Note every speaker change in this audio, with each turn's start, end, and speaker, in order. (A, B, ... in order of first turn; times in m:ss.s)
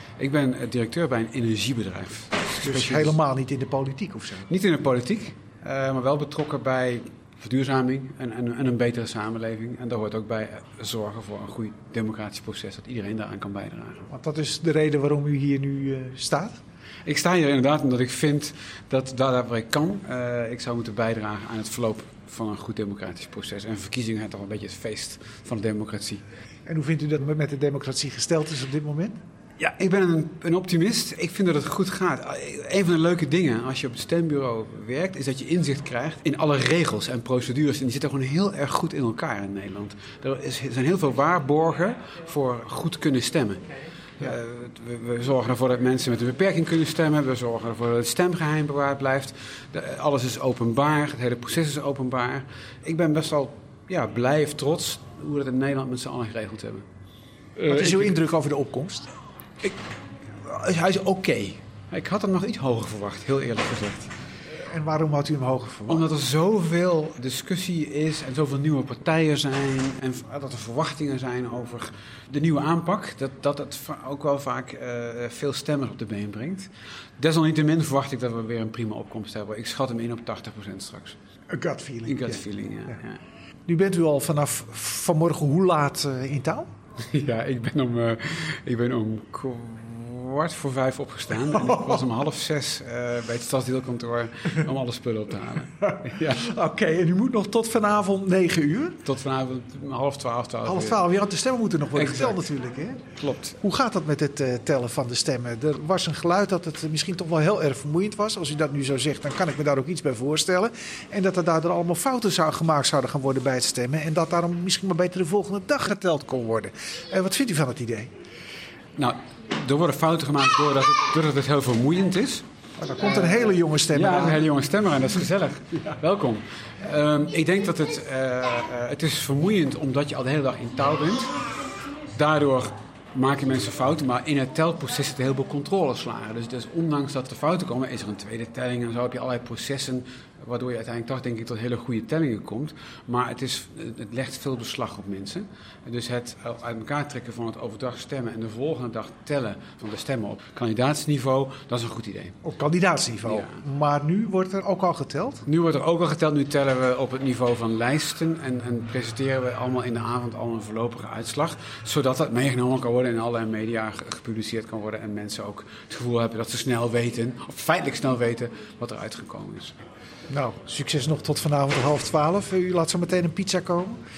0:00.2-0:03.2 A
0:02.6-0:04.5 B
0:04.5-0:14.1 A
0:14.1-0:16.6 B
0:17.0-0:26.2 A
0:26.7-0:29.2 B
0:29.6-0:43.6 A
0:44.2-0:56.8 A
0:57.6-0:58.2 A
0:57.7-0:59.1 B
1:00.4-1:04.1 A
1:04.6-1:06.1 B
1:05.9-1:21.2 A
1:21.5-1:23.0 B
1:22.1-1:23.2 A
1:23.7-1:26.7 B
1:27.1-1:36.5 A
1:31.5-1:32.0 B
1:35.8-1:39.0 B
1:39.0-1:41.0 A
1:40.6-1:43.0 B
1:42.0-1:42.4 A
1:43.2-1:43.6 A
1:43.6-1:58.1 B
1:59.0-2:02.4 A
2:02.8-2:04.4 B
2:03.9-2:11.4 A
2:12.2-2:32.4 A
2:32.4-2:35.5 B
2:33.2-2:33.5 A
2:35.5-2:49.8 A
2:50.3-2:54.0 B